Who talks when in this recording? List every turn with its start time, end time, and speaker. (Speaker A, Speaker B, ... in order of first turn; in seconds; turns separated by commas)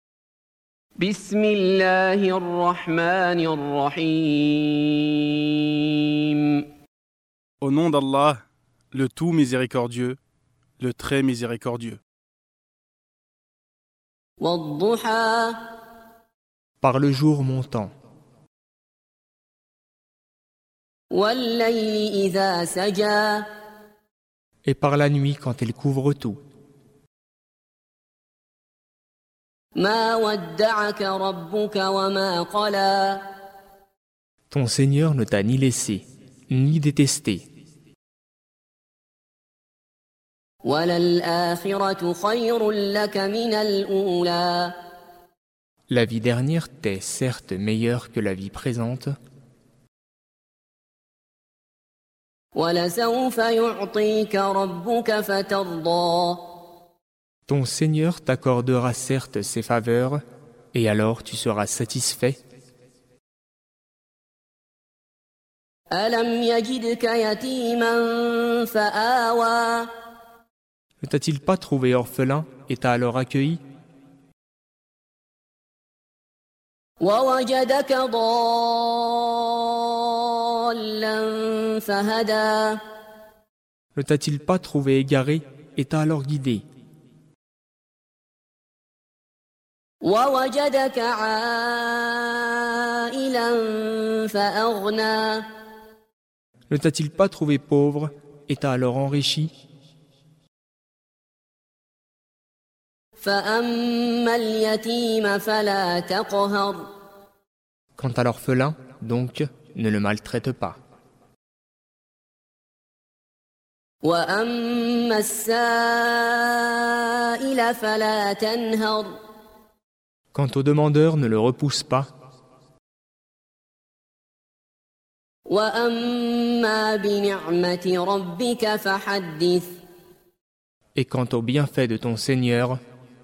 Speaker A: 1.0-6.7, Speaker B: 7.6-10.2, Speaker B: 10.8-12.0, Speaker A: 14.4-15.6, Speaker C: 16.8-17.9, Speaker A: 21.1-23.5, Speaker C: 24.6-26.4, Speaker A: 29.8-33.2, Speaker C: 34.5-37.4, Speaker A: 40.6-44.8, Speaker C: 45.9-49.1, Speaker A: 52.5-56.5, Speaker C: 57.5-60.2, Speaker C: 60.7-62.4, Speaker A: 65.9-69.9, Speaker C: 71.0-73.6, Speaker A: 77.0-82.8, Speaker C: 84.0-86.7, Speaker A: 90.0-95.5, Speaker C: 96.7-99.5, Speaker A: 103.2-106.9, Speaker C: 108.0-110.8, Speaker A: 114.0-119.2, Speaker C: 120.3-122.1, Speaker A: 125.5-129.7, Speaker C: 130.9-132.8